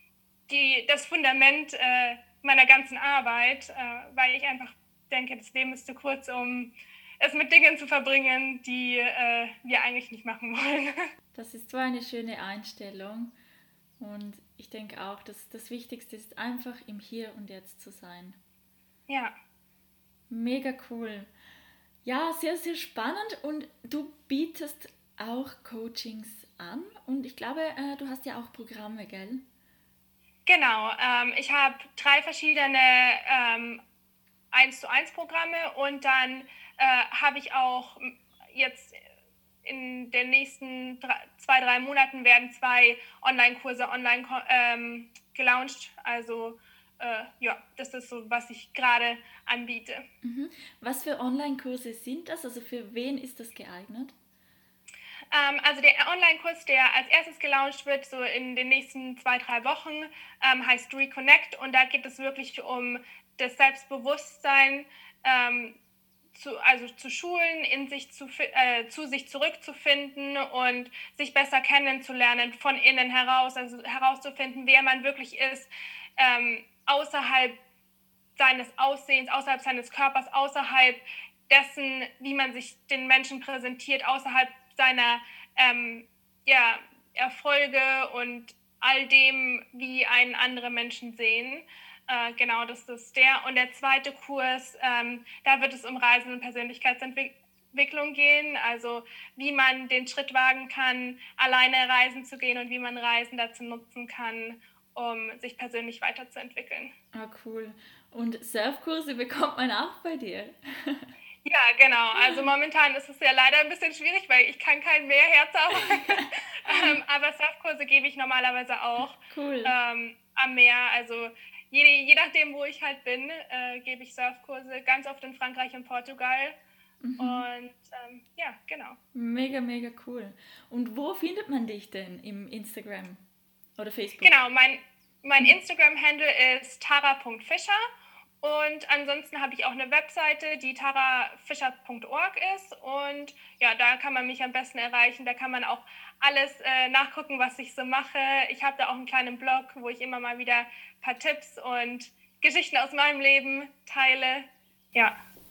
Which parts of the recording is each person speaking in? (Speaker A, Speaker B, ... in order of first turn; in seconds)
Speaker A: 0.5-11.0, 19.1-19.3, 30.5-33.8, 34.5-39.0, 39.6-50.0, 55.3-65.8, 66.3-77.6, 78.4-106.9, 111.5-126.6, 127.2-129.0, 134.2-137.8, 138.4-155.2
Speaker B: 11.3-13.3, 14.0-18.4, 20.3-21.3, 22.1-29.4, 50.2-54.2, 107.2-111.1, 115.9-117.0, 119.3-119.8, 127.0-127.5, 129.1-133.2, 133.8-134.4